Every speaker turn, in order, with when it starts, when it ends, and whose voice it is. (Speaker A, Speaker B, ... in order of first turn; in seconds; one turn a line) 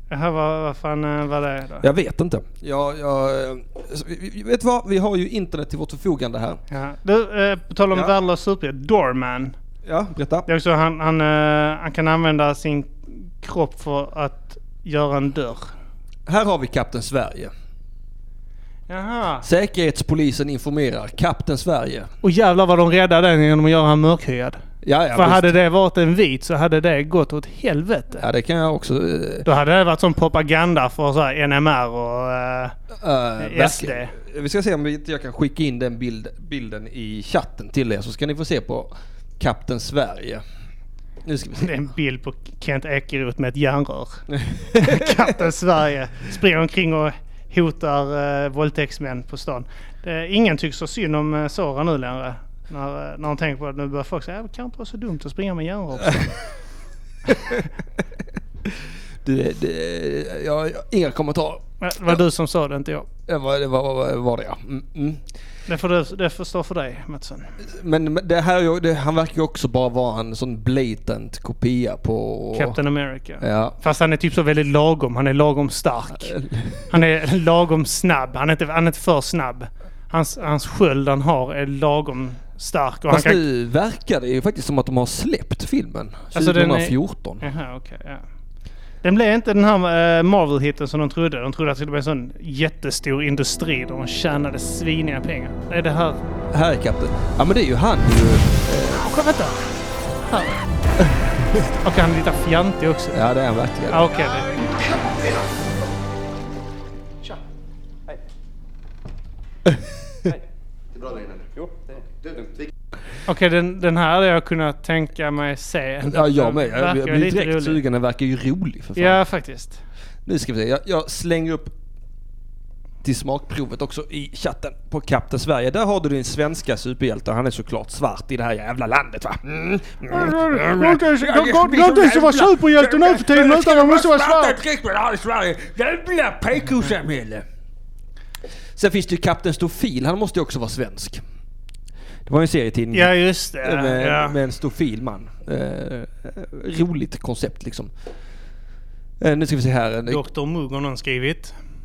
Speaker A: 0.1-1.9
Speaker B: 1.8-6.6
Speaker A: 6.7-9.6
Speaker B: 9.8-10.5
Speaker A: 10.5-15.7
Speaker B: 16.3-17.5
Speaker A: 18.9-19.4
Speaker B: 19.4-22.1
Speaker A: 22.2-24.6
Speaker B: 24.8-25.5
Speaker A: 25.1-28.2
Speaker B: 28.2-29.5
Speaker A: 29.4-32.8
Speaker B: 32.9-40.4
Speaker A: 33.4-34.1
Speaker B: 41.2-41.8
Speaker A: 41.6-56.4
Speaker B: 44.3-45.3
Speaker B: 57.3-57.6
Speaker B: 59.2-62.2
Speaker A: 61.8-63.1
Speaker B: 63.3-65.2
Speaker A: 65.7-67.5
Speaker B: 67.6-72.8
Speaker A: 72.5-76.3
Speaker B: 73.4-73.8
Speaker B: 76.2-76.9
Speaker A: 76.9-83.4
Speaker B: 83.1-87.5
Speaker A: 86.3-88.2
Speaker A: 89.0-96.2
Speaker B: 96.5-99.0
Speaker A: 98.9-99.6
Speaker A: 100.2-100.6
Speaker B: 101.1-101.5
Speaker A: 101.6-103.2
Speaker B: 103.1-104.1
Speaker A: 103.9-104.5
Speaker A: 113.3-117.8
Speaker B: 116.1-119.2
Speaker A: 119.0-119.8
Speaker B: 120.3-121.7
Speaker B: 123.0-137.4
Speaker A: 130.1-134.6
Speaker B: 138.8-141.2
Speaker B: 142.3-147.9
Speaker A: 142.9-144.4
Speaker B: 149.2-150.2
Speaker A: 150.1-151.6